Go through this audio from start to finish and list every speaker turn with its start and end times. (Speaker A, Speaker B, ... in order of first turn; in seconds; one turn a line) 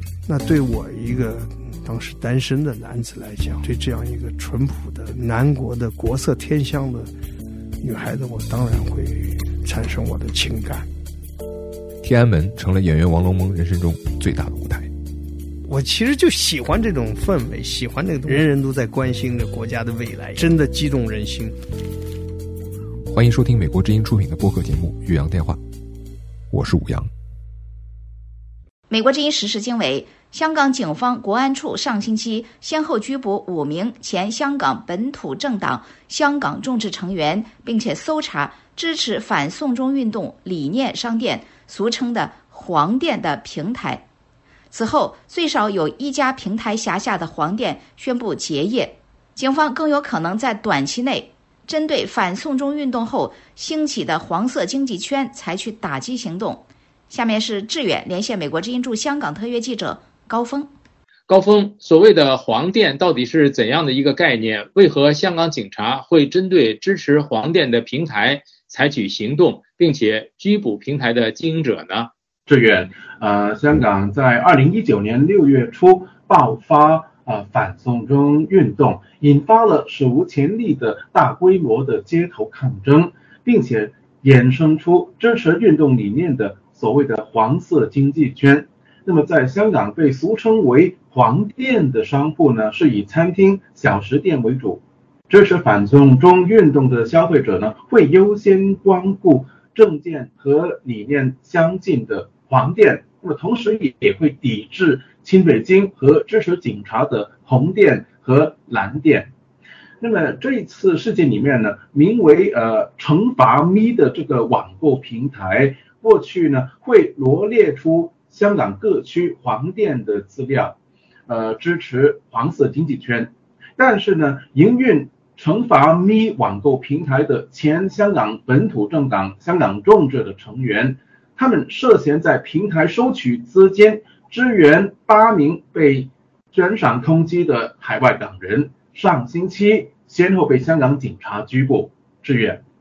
Speaker A: 0.2-7.1
Speaker A: 7.8-10.9
Speaker B: 12.0-14.9
Speaker A: 15.7-21.5
Speaker B: 23.1-25.6
Speaker B: 26.5-27.1
Speaker C: 28.9-44.0
Speaker C: 44.7-60.7
Speaker D: 61.3-72.1
Speaker E: 72.5-109.3
Speaker E: 110.0-120.7
Speaker E: 121.3-142.6